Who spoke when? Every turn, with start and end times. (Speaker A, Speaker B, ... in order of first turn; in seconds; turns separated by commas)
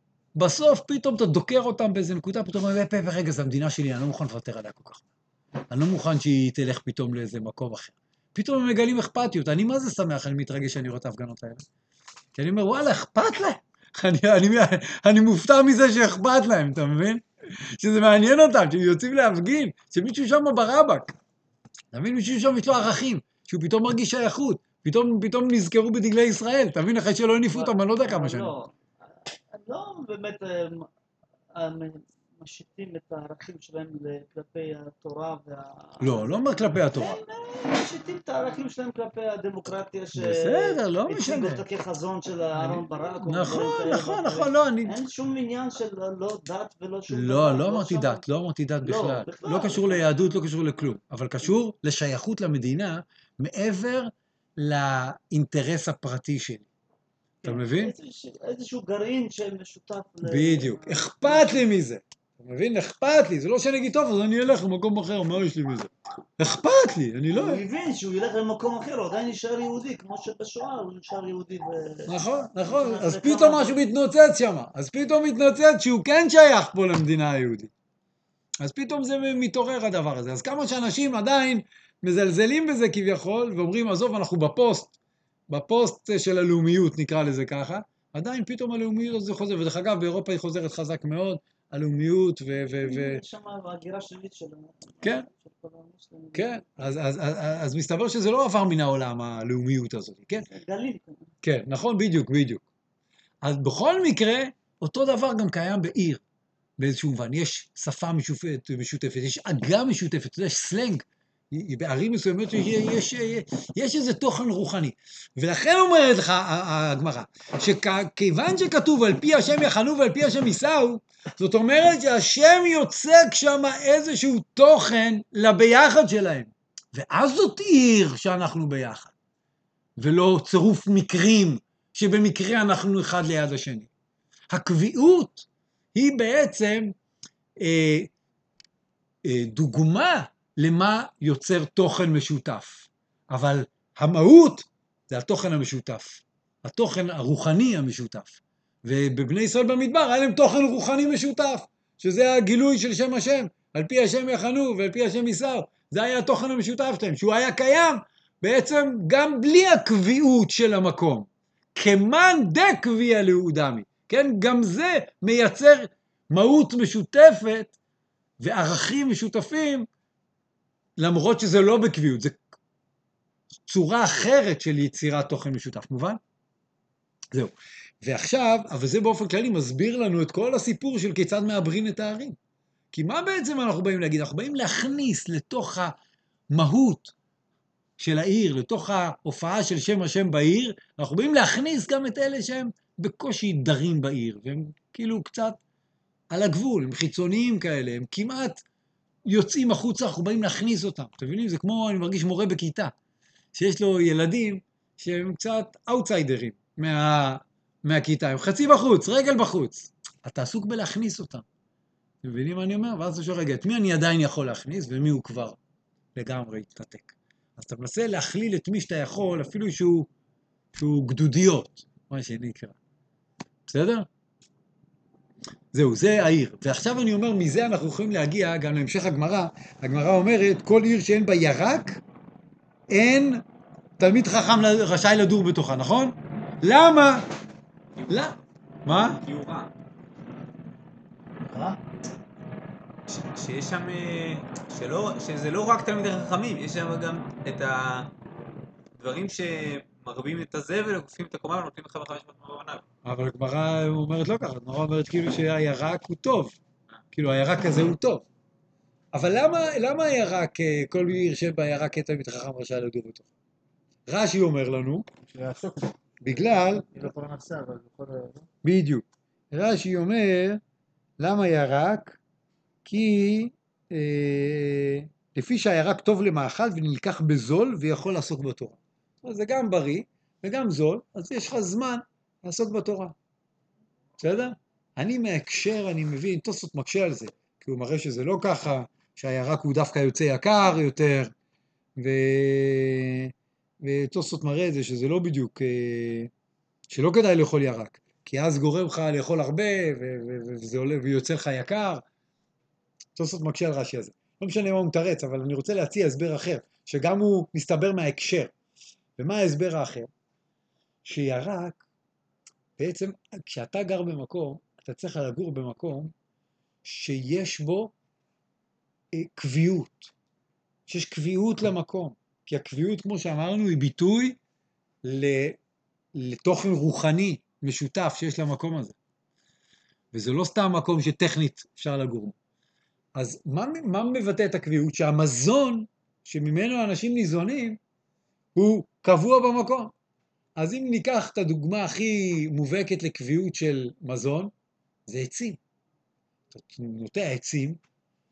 Speaker A: 0.3-5.0, Speaker A: 5.7-11.6, Speaker A: 12.3-17.2, Speaker A: 17.8-21.1, Speaker A: 21.9-28.5, Speaker B: 27.5-28.7, Speaker B: 29.5-30.9, Speaker B: 31.6-48.2, Speaker A: 36.0-37.2, Speaker A: 40.1-41.6, Speaker A: 42.6-45.0, Speaker A: 47.1-56.7, Speaker B: 48.8-50.1, Speaker B: 57.4-61.6, Speaker A: 57.4-57.9, Speaker A: 60.2-67.6, Speaker B: 67.3-73.8, Speaker A: 72.1-77.7, Speaker A: 78.6-84.9, Speaker A: 85.5-93.2, Speaker B: 92.7-96.8, Speaker A: 95.0-95.3, Speaker A: 96.3-100.5, Speaker B: 100.5-101.3, Speaker A: 101.4-102.6, Speaker A: 103.4-106.2, Speaker A: 106.8-129.1, Speaker A: 130.0-133.9, Speaker A: 134.5-136.9, Speaker A: 137.6-138.1, Speaker A: 139.2-167.7, Speaker A: 168.4-169.9, Speaker A: 171.0-172.4, Speaker A: 173.7-176.2, Speaker A: 177.3-182.4, Speaker A: 182.9-185.9, Speaker A: 186.5-187.1, Speaker A: 188.0-195.6, Speaker A: 196.3-198.6, Speaker A: 199.3-202.9, Speaker A: 203.5-211.4, Speaker A: 212.2-215.6, Speaker A: 216.1-220.1, Speaker A: 220.7-222.7, Speaker A: 223.7-224.1, Speaker A: 225.7-232.0, Speaker A: 232.9-233.4, Speaker A: 234.0-237.2, Speaker A: 238.1-238.3, Speaker A: 238.8-239.2, Speaker C: 239.0-239.7, Speaker D: 241.5-241.8, Speaker C: 243.1-248.1, Speaker C: 249.0-252.8, Speaker A: 253.0-256.6, Speaker A: 257.1-258.2, Speaker A: 259.1-263.3, Speaker A: 264.1-265.1, Speaker D: 265.3-268.5, Speaker A: 266.2-266.8, Speaker A: 268.6-270.6, Speaker A: 271.2-272.2, Speaker A: 272.9-283.1, Speaker A: 284.2-291.3, Speaker A: 292.0-293.3, Speaker A: 293.8-296.3, Speaker A: 296.9-302.0, Speaker A: 303.1-308.5, Speaker A: 309.2-310.1, Speaker A: 311.0-311.8, Speaker A: 312.8-316.1, Speaker A: 316.8-317.9, Speaker A: 319.1-320.1, Speaker A: 320.9-324.4, Speaker A: 325.0-325.6, Speaker A: 326.1-328.9, Speaker A: 330.1-332.3, Speaker A: 333.1-337.8, Speaker A: 338.5-339.9, Speaker A: 340.6-344.5, Speaker A: 345.1-345.6, Speaker A: 346.5-347.8